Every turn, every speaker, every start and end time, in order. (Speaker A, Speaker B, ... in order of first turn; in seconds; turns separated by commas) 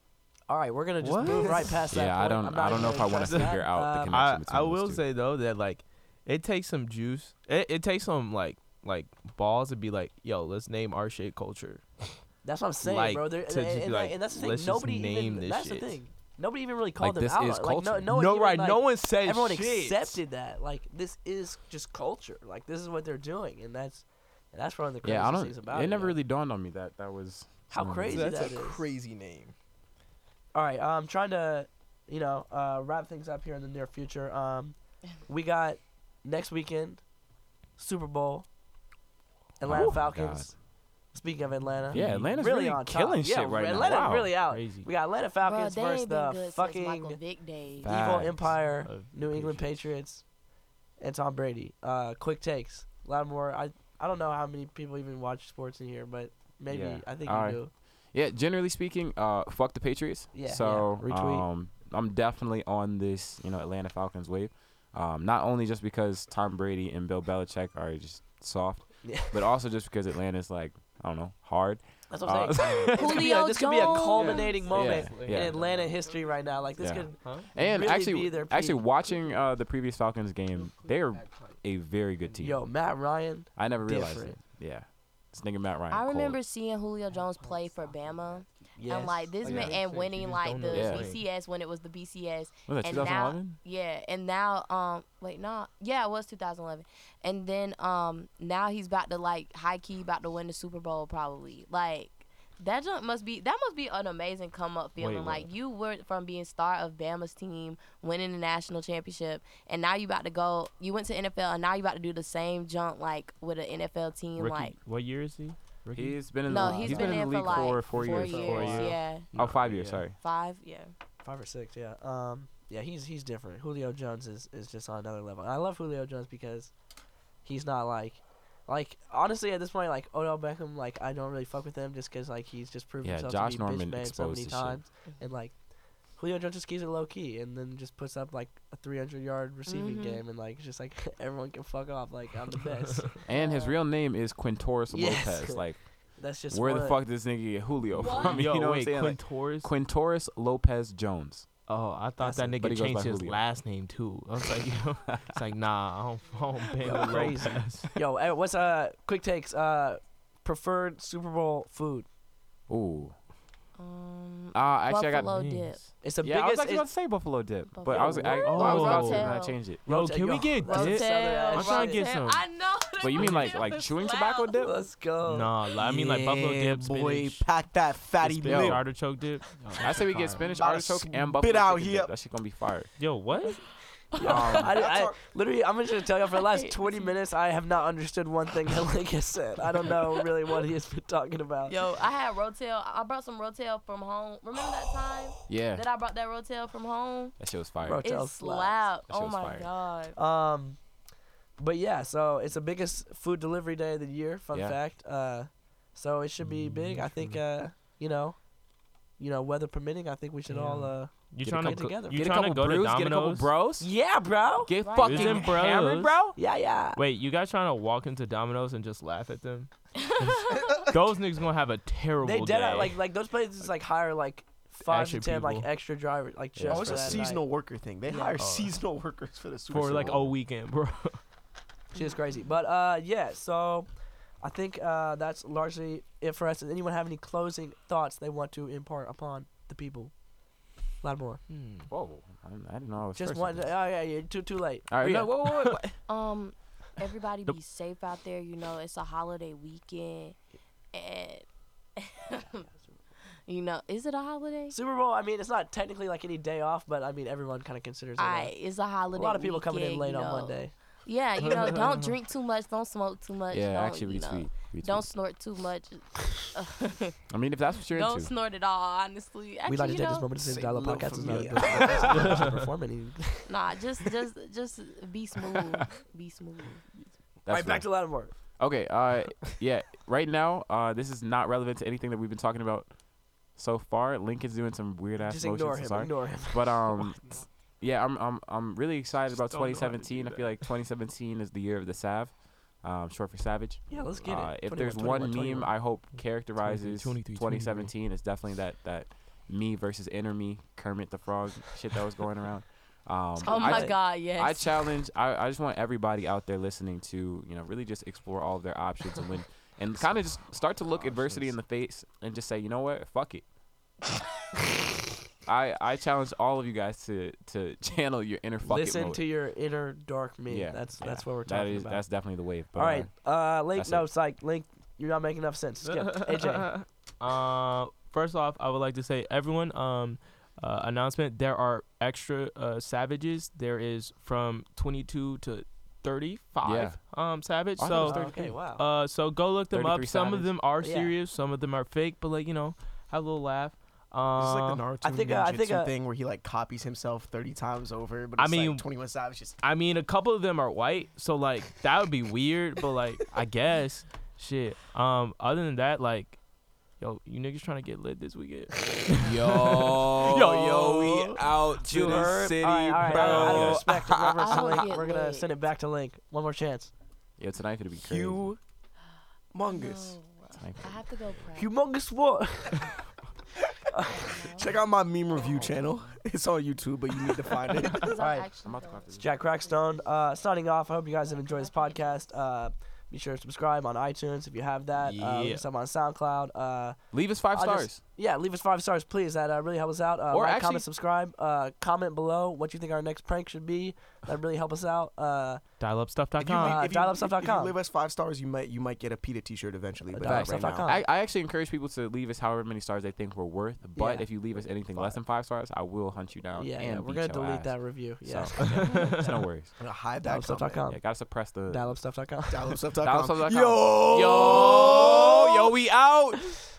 Speaker A: 0.5-4.1, Speaker B: 1.0-1.9, Speaker C: 1.2-1.6, Speaker D: 1.9-5.1, Speaker B: 2.7-12.2, Speaker A: 12.4-26.2, Speaker B: 12.8-16.0, Speaker D: 17.0-18.1, Speaker B: 18.1-20.2, Speaker D: 25.0-28.5, Speaker A: 27.7-28.9, Speaker B: 28.1-29.5, Speaker A: 30.5-37.1, Speaker A: 37.8-38.5, Speaker A: 39.6-50.3, Speaker D: 39.6-40.6, Speaker B: 41.8-42.4, Speaker D: 41.9-44.3, Speaker B: 44.4-44.9, Speaker E: 45.4-48.3, Speaker D: 47.8-48.6, Speaker B: 48.4-49.8, Speaker A: 51.0-57.7, Speaker D: 56.7-73.3, Speaker A: 60.3-61.5, Speaker A: 69.0-69.5, Speaker A: 72.1-78.8, Speaker E: 72.9-74.7, Speaker B: 73.8-76.1, Speaker D: 74.7-75.6, Speaker D: 76.8-82.7, Speaker B: 77.0-77.5, Speaker B: 80.7-81.6, Speaker A: 82.4-84.4, Speaker D: 83.5-86.4, Speaker E: 85.9-115.3, Speaker B: 87.1-88.6, Speaker A: 88.8-90.1, Speaker D: 89.4-89.8, Speaker B: 89.5-91.2, Speaker D: 90.7-91.1, Speaker D: 92.7-93.6, Speaker B: 105.0-105.5, Speaker B: 114.3-120.1, Speaker D: 115.9-120.2, Speaker E: 116.4-119.3, Speaker A: 117.9-119.4, Speaker E: 120.1-120.9, Speaker A: 121.2-126.8, Speaker A: 127.4-143.2, Speaker D: 133.0-134.8, Speaker E: 135.1-135.4, Speaker E: 139.7-140.2, Speaker D: 143.2-151.5, Speaker E: 143.3-143.8, Speaker A: 144.9-147.0, Speaker E: 147.9-148.6, Speaker B: 148.0-149.7, Speaker B: 151.7-157.9, Speaker A: 152.2-152.7, Speaker D: 152.6-153.8, Speaker A: 156.8-162.1, Speaker D: 162.7-163.2, Speaker E: 163.7-165.8, Speaker D: 164.5-169.8, Speaker B: 165.3-165.7, Speaker A: 166.0-166.9, Speaker E: 167.7-169.7, Speaker A: 167.9-168.5, Speaker B: 168.2-172.6, Speaker A: 169.8-172.1, Speaker E: 170.6-174.8, Speaker D: 173.0-174.9, Speaker B: 173.2-173.5, Speaker A: 174.6-175.6, Speaker B: 175.2-177.7, Speaker C: 175.8-179.1, Speaker B: 178.2-180.6, Speaker D: 178.4-179.0, Speaker D: 179.6-183.0, Speaker C: 180.4-182.2, Speaker B: 183.0-183.7, Speaker E: 183.4-184.8, Speaker A: 184.0-191.8, Speaker D: 184.1-184.8, Speaker C: 184.6-185.2, Speaker E: 186.5-187.1, Speaker E: 191.7-200.2, Speaker D: 195.5-195.8, Speaker D: 197.4-198.0, Speaker A: 197.8-199.0, Speaker D: 199.1-199.8, Speaker A: 200.1-200.9, Speaker A: 201.6-208.6, Speaker D: 204.5-204.8, Speaker B: 206.4-207.4, Speaker A: 209.1-212.3, Speaker B: 210.5-213.6, Speaker D: 211.4-216.4, Speaker A: 213.8-214.7, Speaker E: 214.8-215.6, Speaker B: 215.0-216.4, Speaker A: 216.3-217.0, Speaker B: 216.9-223.1, Speaker E: 220.0-220.9, Speaker A: 222.2-228.4, Speaker B: 224.8-225.7, Speaker D: 226.6-226.8, Speaker C: 226.7-230.4, Speaker B: 226.7-227.3, Speaker B: 228.4-228.8, Speaker B: 229.7-231.3, Speaker A: 231.9-240.3, Speaker A: 240.8-241.5, Speaker B: 241.5-241.9, Speaker D: 241.9-243.8, Speaker A: 243.1-245.4, Speaker D: 244.9-246.0, Speaker E: 246.1-250.4, Speaker E: 250.9-252.6, Speaker A: 252.7-252.9, Speaker E: 253.5-254.7, Speaker A: 254.7-258.6, Speaker E: 258.2-267.2, Speaker A: 259.1-260.8, Speaker D: 263.5-265.1, Speaker D: 267.3-268.3, Speaker E: 267.9-270.3, Speaker A: 269.6-273.5, Speaker C: 270.4-272.3, Speaker D: 271.7-272.1, Speaker B: 272.3-272.6, Speaker E: 273.4-276.8, Speaker D: 277.4-313.5, Speaker A: 277.4-278.6, Speaker A: 285.2-287.0, Speaker B: 289.3-290.7, Speaker A: 293.9-295.7, Speaker B: 296.1-297.9, Speaker E: 303.4-304.9, Speaker A: 303.4-304.0, Speaker B: 311.0-311.5, Speaker D: 315.4-319.3, Speaker A: 318.6-326.8, Speaker D: 320.5-324.1, Speaker B: 325.9-344.9, Speaker D: 336.6-338.6, Speaker A: 337.9-338.8, Speaker D: 339.7-340.6, Speaker A: 340.8-341.1, Speaker C: 344.4-349.6, Speaker A: 345.0-345.9, Speaker B: 348.4-362.3, Speaker D: 359.2-364.8, Speaker A: 361.9-366.9, Speaker B: 363.1-364.0, Speaker E: 364.4-365.5, Speaker D: 367.4-368.5, Speaker C: 368.0-368.6, Speaker C: 369.5-370.2, Speaker E: 369.7-371.7, Speaker D: 370.6-371.1, Speaker A: 371.5-373.0, Speaker A: 373.9-374.3, Speaker E: 374.1-374.7, Speaker C: 374.6-378.4, Speaker E: 375.3-375.6, Speaker E: 378.0-380.0, Speaker A: 378.2-378.5, Speaker D: 378.6-379.6, Speaker A: 379.2-397.8, Speaker E: 381.2-382.4, Speaker B: 385.0-385.6, Speaker D: 387.1-388.0, Speaker D: 390.3-390.9, Speaker B: 395.8-396.9, Speaker C: 396.4-401.0, Speaker A: 400.1-401.0, Speaker D: 400.2-409.8, Speaker A: 403.9-404.3, Speaker C: 404.7-405.2, Speaker A: 406.6-409.2, Speaker B: 408.7-409.2, Speaker C: 409.8-410.8, Speaker A: 410.2-412.8, Speaker D: 410.9-412.0, Speaker C: 412.5-415.4, Speaker D: 413.0-414.5, Speaker B: 414.1-416.4, Speaker A: 414.5-415.0